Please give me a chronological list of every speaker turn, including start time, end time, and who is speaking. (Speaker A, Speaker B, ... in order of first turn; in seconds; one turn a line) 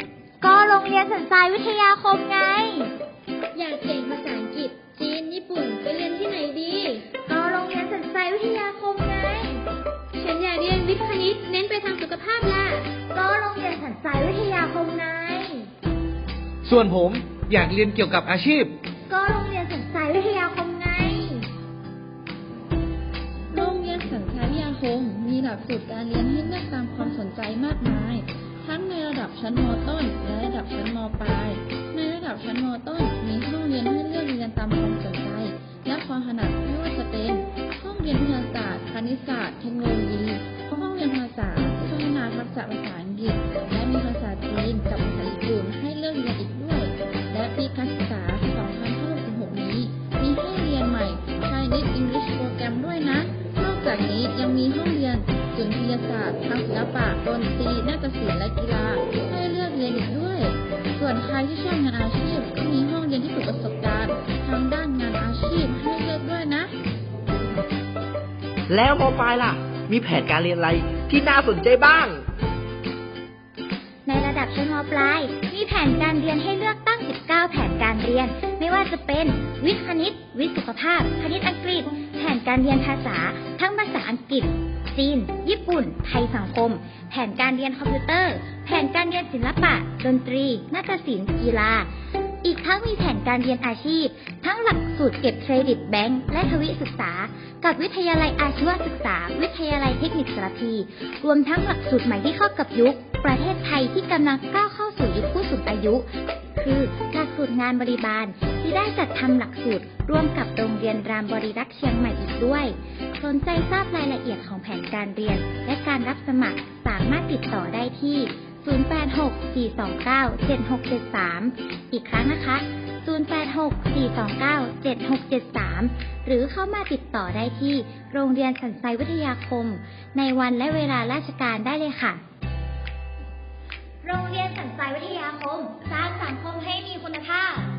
Speaker A: 0.4-2.8
Speaker B: 3.5-7.2
Speaker A: 7.3-9.4
Speaker B: 10.2-13.0
Speaker A: 13.1-15.3
Speaker C: 16.7-18.7
Speaker A: 19.1-21.1
Speaker D: 23.5-66.7
Speaker E: 68.7-72.2
Speaker A: 74.0-91.9
Speaker A: 92.4-132.2
Speaker A: 134.0-137.7